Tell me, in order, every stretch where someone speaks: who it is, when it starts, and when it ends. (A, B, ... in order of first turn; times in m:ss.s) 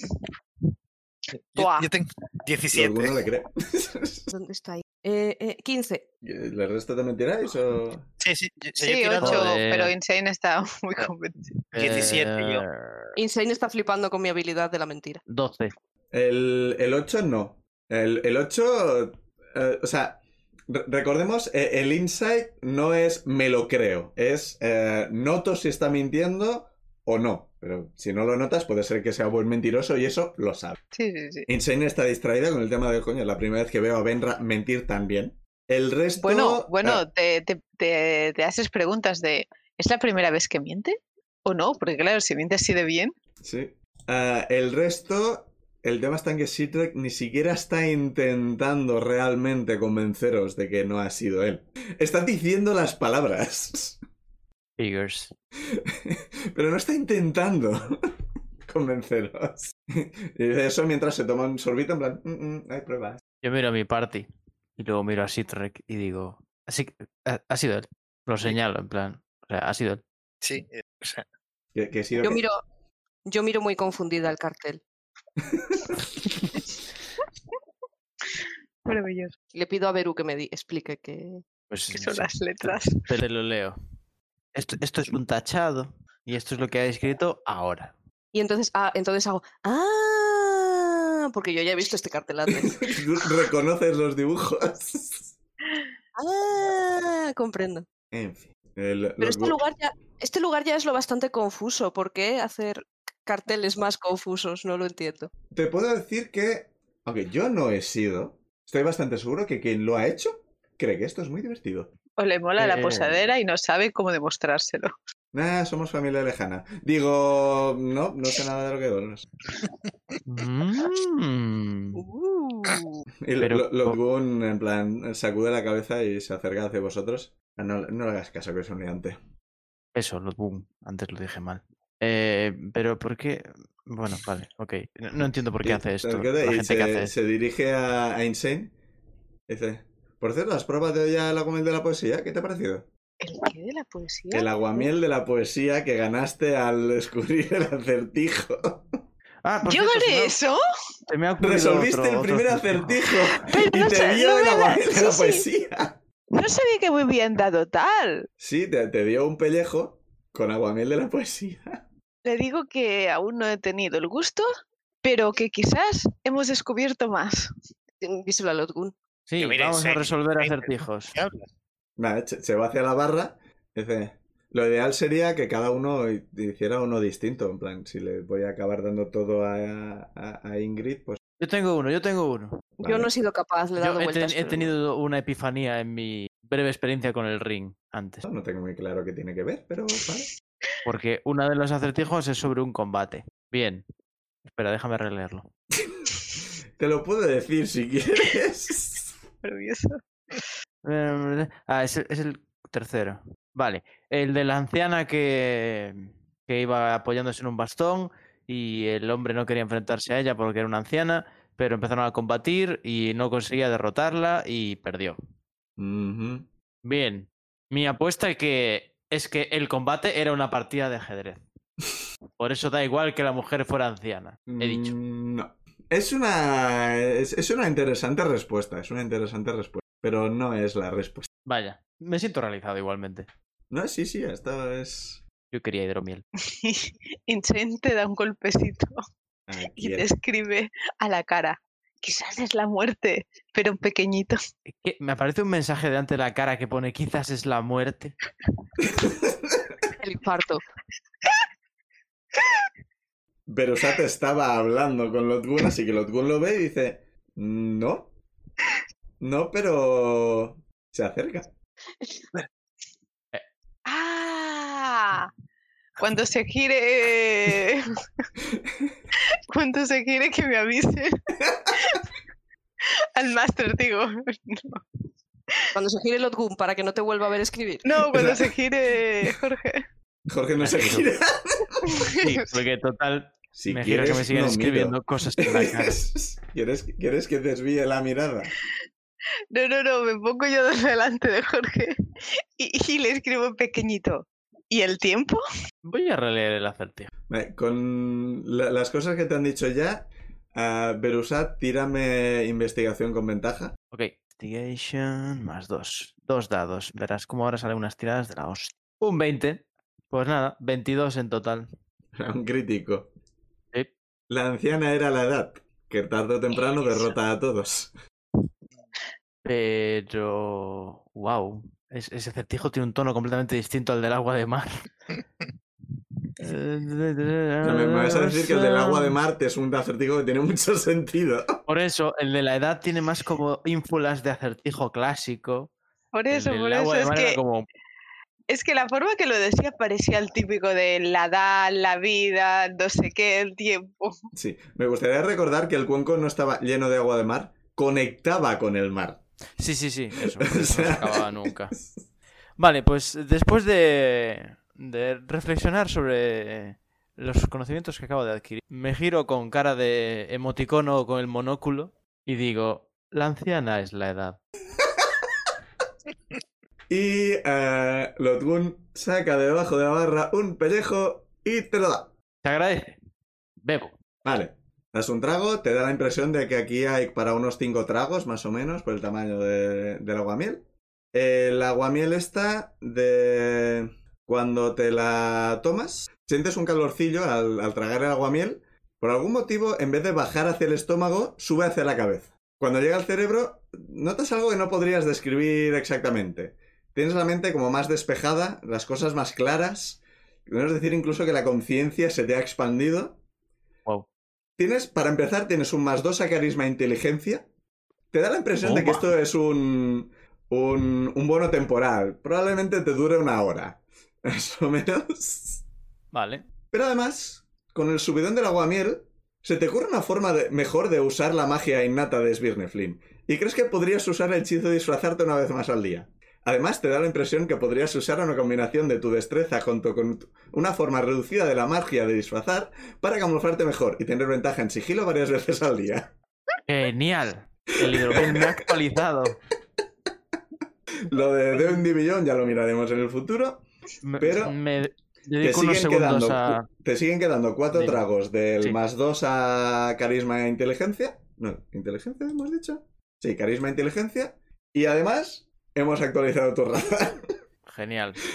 0:01.5-0:03.2 A
0:01.6-0:01.9 B
0:02.7-0:04.3 C
0:04.3-0:06.0 B
0:06.2-0:08.1 C
0:08.2-0:09.5 A
0:08.8-0:11.6 D
0:09.2-0:09.9 E
0:11.7-0:13.1 E
0:11.8-0:12.6 A
0:13.2-0:15.2 B
0:15.3-0:15.7 E
0:16.1-0:30.8 C
0:30.9-0:31.5 D
0:31.5-0:37.0 C
0:36.2-0:43.1 D
0:43.4-0:54.0 C
0:54.8-0:55.3 E
0:55.7-0:58.0 C
0:58.7-1:03.2 C
1:03.4-1:10.0 E
1:10.4-1:11.2 A
1:11.7-1:12.4 C
1:12.2-1:12.6 B
1:13.3-1:14.8 B
1:15.6-1:15.9 C
1:18.8-1:19.3 D
1:19.5-1:21.4 B
1:21.7-1:23.8 E
1:22.0-1:23.0 D
1:24.6-1:27.9 E
1:28.3-1:32.8 B
1:32.5-1:35.3 C
1:36.2-1:37.9 B
1:38.1-1:39.6 C
1:39.2-1:45.3 B
1:45.5-1:51.9 C
1:52.2-1:54.9 D
1:52.6-1:53.2 E
1:55.3-1:59.3 C
1:59.6-2:00.2 A
2:00.2-2:02.0 E
2:01.9-2:03.0 B
2:03.2-2:09.2 C
2:03.4-2:04.0 E
2:10.0-2:17.1 E
2:15.6-2:18.7 C
2:19.5-2:22.9 C
2:23.2-2:24.9 D
2:24.3-2:29.0 C
2:29.4-2:30.4 E
2:29.7-2:30.6 D
2:31.1-2:33.1 E
2:31.4-2:36.0 C
2:33.4-2:35.4 D
2:36.3-2:38.3 D
2:38.4-2:41.8 C
2:42.2-2:44.5 D
2:45.0-2:47.5 D
2:48.0-2:48.9 B
2:49.3-2:51.2 E
2:49.4-2:51.5 A
2:52.0-3:01.2 C
3:01.4-3:02.7 E
3:02.8-3:03.1 C
3:02.8-3:04.7 B
3:03.8-3:08.3 E
3:08.3-3:10.3 C
3:10.8-3:13.8 E
3:14.5-3:15.5 E
3:16.8-3:19.1 C
3:19.4-3:20.4 D
3:20.8-3:35.2 E
3:35.8-3:36.5 C
3:36.8-3:41.4 E
3:42.4-3:44.9 E
3:44.5-3:51.3 C
3:51.5-3:53.3 E
3:53.7-3:55.2 C
3:55.5-3:56.2 E
3:56.5-3:58.9 D
3:59.5-4:00.1 C
3:59.8-4:04.4 D
4:04.7-4:08.2 E
4:08.8-4:09.7 C
4:10.0-4:10.6 B
4:13.5-4:18.1 C
4:19.2-4:21.5 C
4:23.9-4:25.3 D
4:26.0-4:27.8 D
4:29.5-4:31.1 D
4:33.2-4:34.8 D
4:35.7-4:37.9 B
4:37.8-4:39.8 D
4:38.1-4:38.5 C
4:40.3-4:41.9 C
4:40.6-4:41.1 E
4:41.9-4:42.5 D
4:42.2-4:46.0 E
4:43.6-4:48.5 C
4:49.5-4:52.0 D
4:52.6-4:55.4 D
4:55.8-4:57.1 E
4:57.3-5:03.7 C
5:03.9-5:11.7 E
5:12.2-5:13.1 C
5:14.3-5:17.9 C
5:19.4-5:24.7 E
5:26.4-5:29.2 E
5:27.6-5:31.6 C
5:31.7-5:35.7 E
5:36.1-5:37.4 D
5:36.3-5:37.7 E
5:38.5-5:44.2 D
5:44.3-5:49.2 C
5:49.6-5:51.8 E
5:50.2-5:51.8 C
5:52.6-6:04.4 E
6:04.8-6:05.1 C
6:06.9-6:12.1 C
6:12.4-6:13.0 E
6:13.6-6:14.0 E
6:14.2-6:20.6 C
6:21.1-6:43.2 C
6:44.6-6:47.5 C
6:48.1-6:55.6 C
6:48.6-6:49.1 E
6:56.1-6:56.4 E
6:56.7-7:16.1 C
7:16.7-7:19.4 E
7:17.8-7:18.7 C
7:21.1-7:23.6 C
7:24.0-7:26.7 E
7:24.2-7:24.6 C
7:25.4-7:37.3 C
7:27.7-7:28.0 E
7:37.7-7:38.2 E